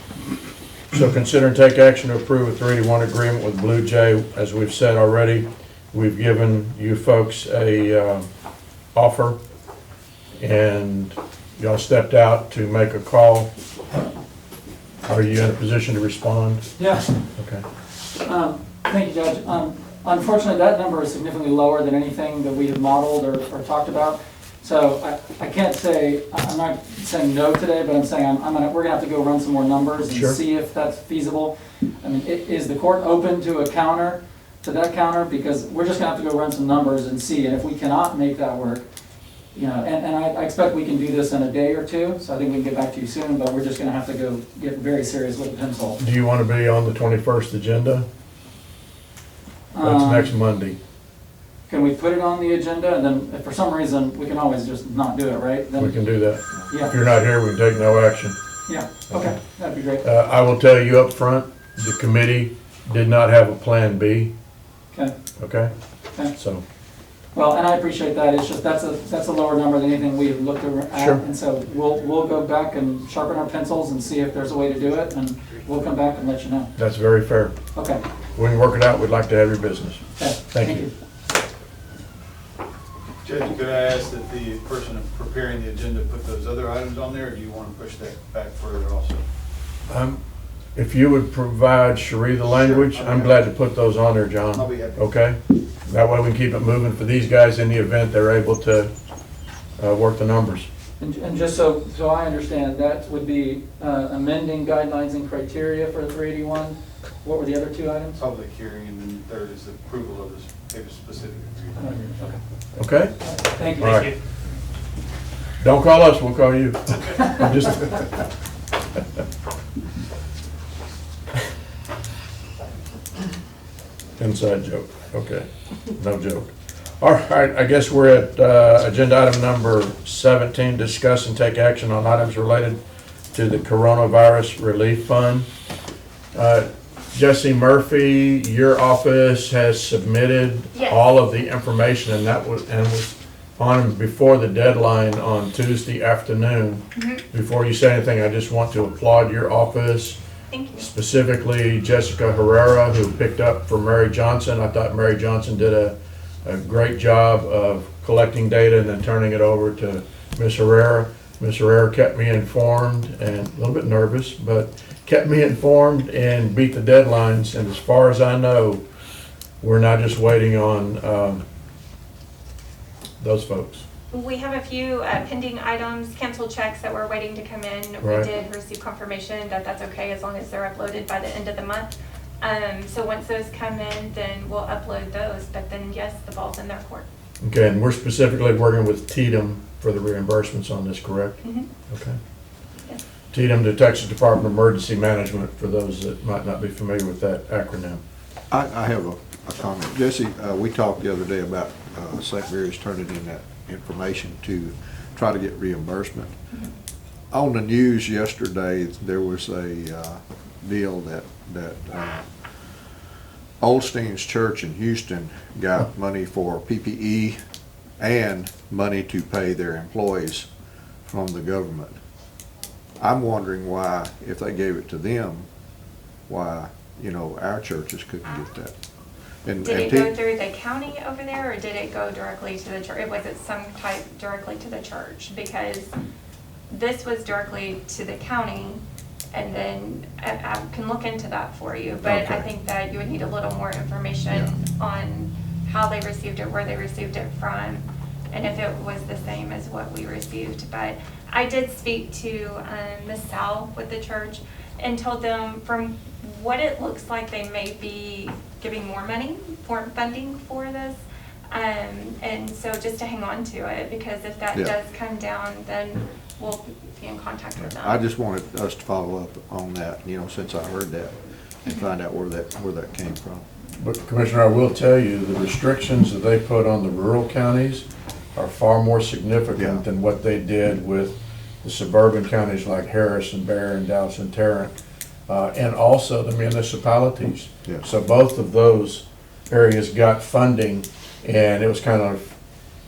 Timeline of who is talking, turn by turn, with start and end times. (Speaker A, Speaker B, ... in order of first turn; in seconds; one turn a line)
Speaker A: 0.9-8.3
Speaker A: 8.9-9.4
Speaker A: 10.4-13.5
Speaker A: 15.1-16.7
Speaker B: 16.8-17.1
Speaker A: 17.4-17.6
Speaker B: 18.2-38.9
Speaker A: 30.1-30.4
Speaker B: 39.5-46.0
Speaker A: 46.0-48.1
Speaker B: 49.7-50.4
Speaker A: 49.8-50.8
Speaker B: 51.7-56.0
Speaker A: 55.8-58.4
Speaker B: 56.7-57.0
Speaker B: 58.7-60.0
Speaker A: 60.0-64.3
Speaker A: 65.4-65.7
Speaker A: 66.3-66.6
Speaker B: 67.3-76.7
Speaker A: 71.0-71.2
Speaker A: 76.8-77.6
Speaker B: 77.8-78.0
Speaker A: 78.3-80.9
Speaker B: 80.2-80.9
Speaker C: 83.2-89.2
Speaker A: 89.9-90.2
Speaker A: 90.8-98.9
Speaker C: 92.5-93.4
Speaker C: 94.5-95.0
Speaker A: 99.8-100.7
Speaker B: 101.0-108.2
Speaker C: 108.2-111.9
Speaker B: 111.8-112.4
Speaker A: 112.8-113.2
Speaker B: 113.2-114.2
Speaker A: 113.8-114.1
Speaker A: 115.6-118.1
Speaker A: 124.2-132.8
Speaker A: 133.3-135.5
Speaker A: 136.3-150.2
Speaker D: 140.7-141.0
Speaker D: 146.9-147.2
Speaker D: 150.5-150.9
Speaker A: 150.8-168.8
Speaker A: 169.6-171.4
Speaker A: 173.2-173.8
Speaker D: 174.1-187.1
Speaker A: 178.0-178.3
Speaker A: 187.4-191.4
Speaker D: 191.4-191.7
Speaker A: 191.9-192.2
Speaker A: 193.3-198.0
Speaker E: 198.5-206.3
Speaker E: 207.3-212.3
Speaker E: 213.6-217.4
Speaker E: 218.0-220.5
Speaker E: 221.1-222.0
Speaker E: 223.0-225.5
Speaker E: 226.3-228.7
Speaker E: 229.4-230.1
Speaker D: 229.6-235.9
Speaker D: 236.7-238.8
Speaker D: 239.3-261.0
Speaker E: 242.0-242.5
Speaker D: 261.5-268.0
Speaker E: 267.6-273.5
Speaker A: 273.8-284.7
Speaker E: 279.6-279.8
Speaker A: 285.3-292.4